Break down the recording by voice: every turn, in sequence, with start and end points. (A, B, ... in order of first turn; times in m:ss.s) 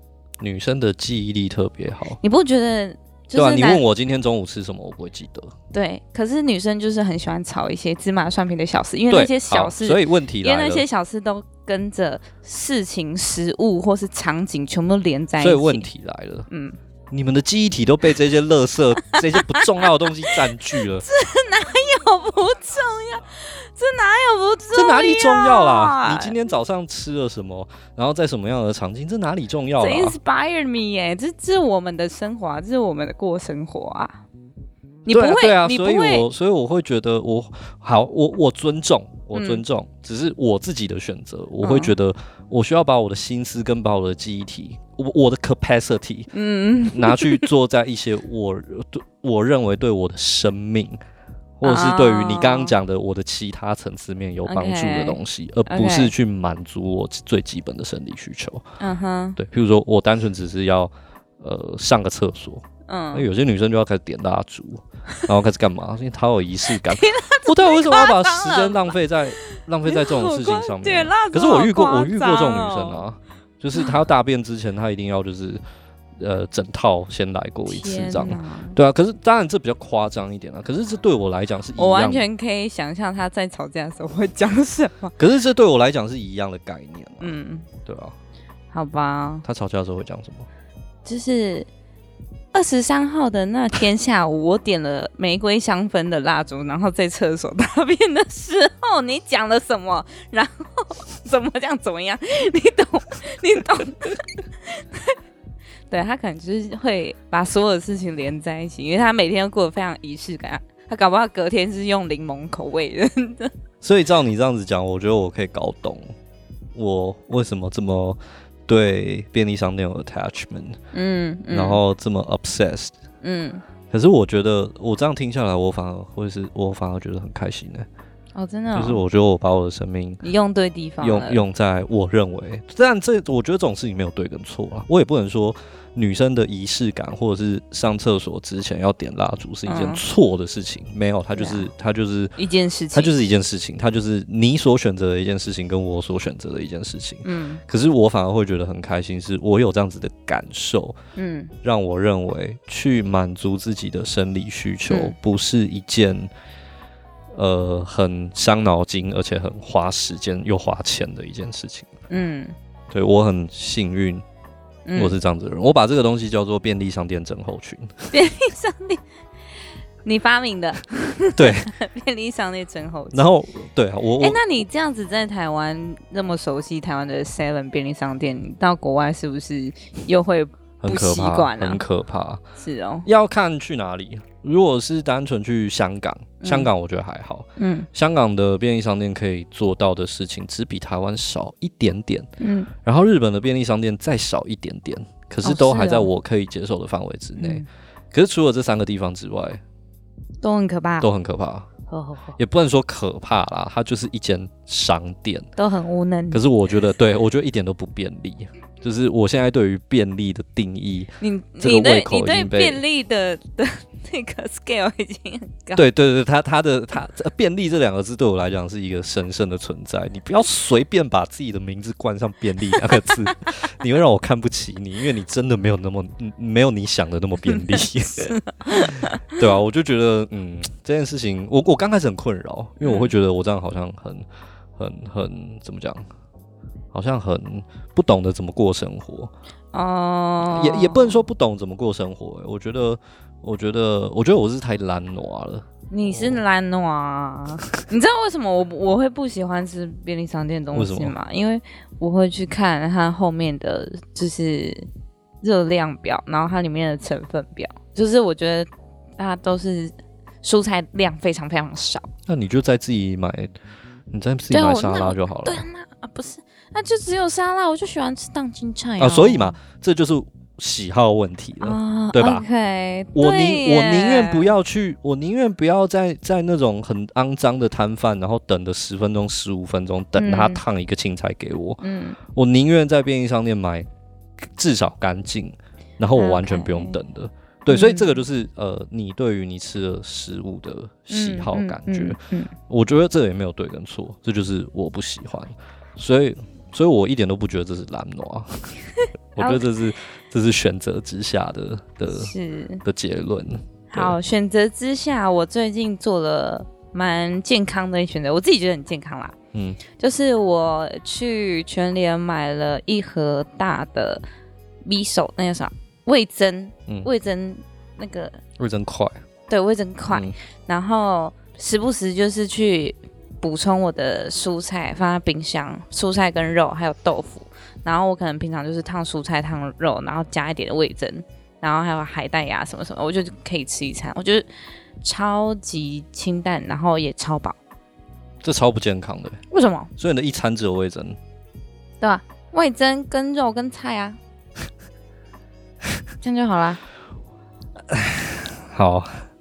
0:00.4-0:02.2 A
0:02.2-0:03.8 B
0:03.3-0:05.5 A
0:05.7-0:15.8 B
0:09.1-0:10.8 A
0:15.4-0:16.5 A
0:16.5-0:16.8 B
0:17.1-0:21.0 A
0:19.1-0:20.4 B
0:21.0-0:26.4 B
0:24.7-0:30.2 A
0:29.8-0:34.2 B
0:35.0-0:36.2 B
0:35.1-0:46.3 A
0:39.3-0:39.6 B
0:41.6-0:41.9 B
0:46.3-0:47.5 B
0:46.9-0:51.0 A
0:51.6-0:58.6 A
0:51.6-0:52.7 B
0:54.4-0:56.1 B
0:58.8-0:59.4 B
0:59.4-1:15.6 A
1:02.9-1:03.3 B
1:06.7-1:13.0 B
1:16.2-1:22.2 A
1:17.7-1:18.8 B
1:21.8-1:25.1 B
1:25.2-1:28.2 A
1:27.2-1:27.7 B
1:28.7-1:29.4 B
1:29.4-1:30.5 A
1:31.0-1:31.7 B
1:32.5-1:45.2 B
1:45.9-1:53.5 B
1:53.8-1:56.1 A
1:56.7-2:00.8 A
2:00.9-2:01.8 B
2:01.5-2:02.9 A
2:03.2-2:03.6 B
2:03.9-2:07.9 A
2:08.4-2:09.0 B
2:08.7-2:10.2 A
2:10.2-2:11.4 B
2:11.0-2:22.3 A
2:19.6-2:20.0 B
2:21.3-2:21.6 B
2:22.4-2:23.1 B
2:22.9-2:31.0 A
2:27.2-2:27.6 B
2:31.2-2:31.5 B
2:31.6-2:36.3 A
2:34.9-2:35.2 B
2:37.3-2:41.9 A
2:42.1-2:42.5 B
2:42.9-2:44.2 A
2:44.8-2:45.1 B
2:45.0-2:48.1 A
2:48.1-2:49.0 B
2:50.0-2:53.2 B
2:51.4-2:51.7 A
2:53.1-2:54.4 A
2:54.2-3:01.8 B
3:00.8-3:02.4 A
3:02.6-3:03.1 B
3:03.0-3:12.3 A
3:06.4-3:06.7 B
3:07.6-3:07.9 B
3:12.4-3:12.7 B
3:12.8-3:19.6 A
3:15.4-3:16.1 B
3:17.4-3:17.6 B
3:20.4-3:21.1 B
3:21.0-3:21.7 A
3:21.9-3:22.4 B
3:22.4-3:25.5 A
3:25.6-3:26.4 B
3:26.3-3:32.8 A
3:31.2-3:35.8 B
3:35.8-3:54.2 A
3:48.2-3:49.4 B
3:52.8-3:53.1 B
3:54.8-3:56.0 A
3:56.9-3:59.3 A
3:59.7-4:01.2 B
4:00.4-4:06.4 A
4:05.9-4:14.9 B
4:10.7-4:11.1 A
4:15.4-4:22.1 B
4:22.3-4:23.5 A
4:24.1-4:25.6 A
4:24.5-4:29.6 B
4:29.0-4:32.4 A
4:31.6-4:34.5 B
4:33.1-4:43.8 A
4:40.2-4:40.6 B
4:41.8-4:42.2 B
4:44.4-4:58.7 A
4:46.2-4:47.0 B
4:47.7-4:48.2 B
4:51.1-4:52.5 B
4:59.3-5:04.2 A
4:59.4-4:59.6 B
5:02.1-5:02.8 B
5:03.9-5:09.4 B
5:09.5-5:09.8 A
5:09.9-5:14.2 B
5:14.8-5:18.4 B
5:18.6-5:19.2 A
5:19.5-5:34.4 B
5:35.0-5:37.6 B
5:38.4-5:39.4 A
5:39.5-5:39.9 B
5:40.0-5:41.2 A
5:42.0-5:44.2 B
5:46.2-5:46.8 B
5:47.9-5:49.2 A